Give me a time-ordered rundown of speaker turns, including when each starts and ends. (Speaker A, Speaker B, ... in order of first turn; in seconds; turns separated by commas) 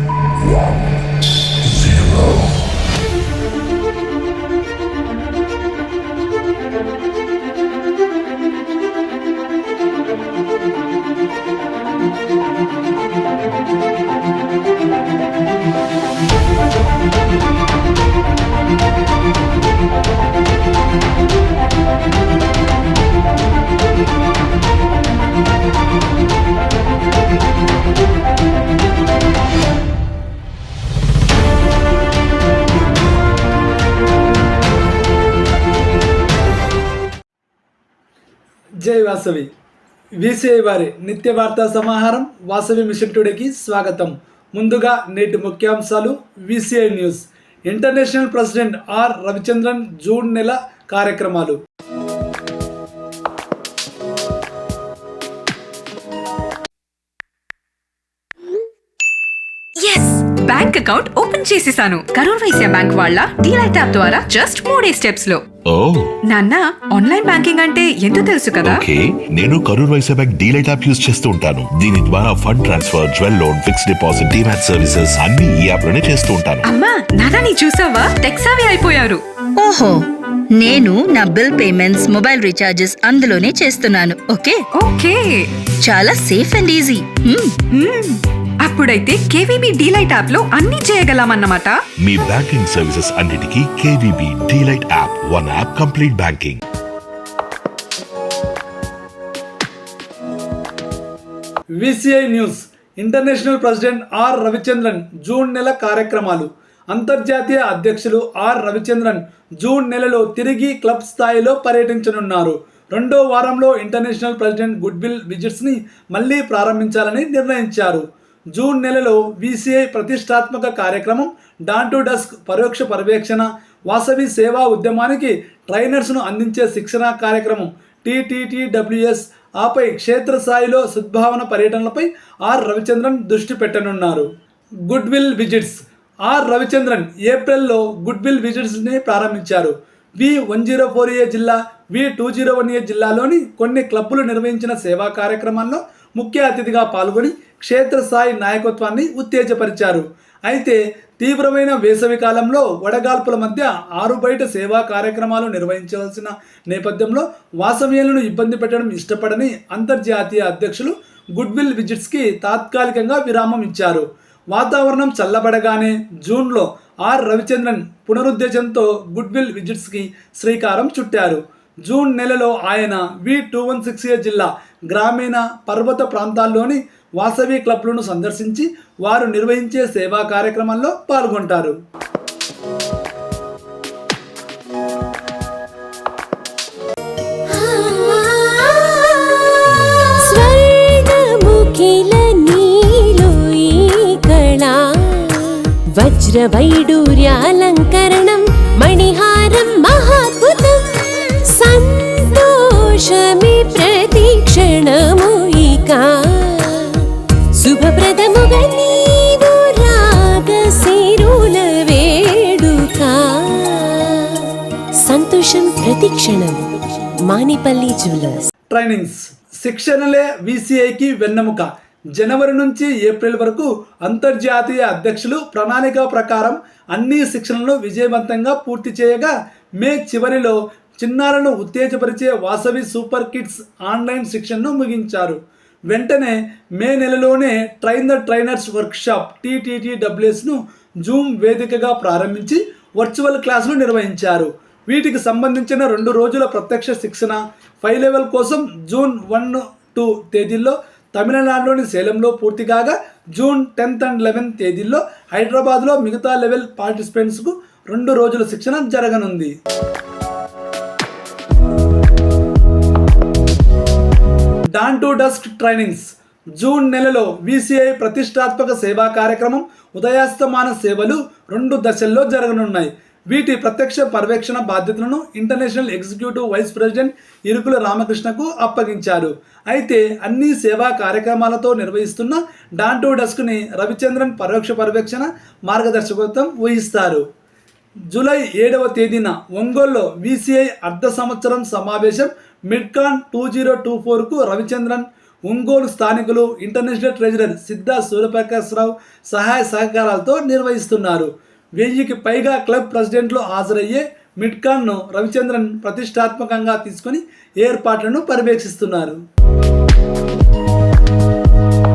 Speaker A: 0.4-2.5, Speaker B: 38.8-39.5, Speaker B: 40.2-51.6, Speaker C: 59.8-65.4, Speaker A: 65.7-66.1, Speaker C: 66.3-68.8, Speaker A: 68.6-76.6, Speaker C: 76.7-79.2, Speaker D: 79.6-80.0, Speaker D: 80.5-84.6, Speaker C: 84.8-85.5, Speaker D: 85.8-87.5, Speaker C: 87.8-91.8, Speaker A: 92.0-96.6, Speaker B: 101.8-134.3, Speaker B: 134.9-181.8, Speaker E: 187.5-216.7, Speaker E: 217.2-218.5, Speaker B: 218.7-259.5, Speaker B: 264.7-266.1, Speaker B: 266.6-287.2, Speaker B: 288.1-309.2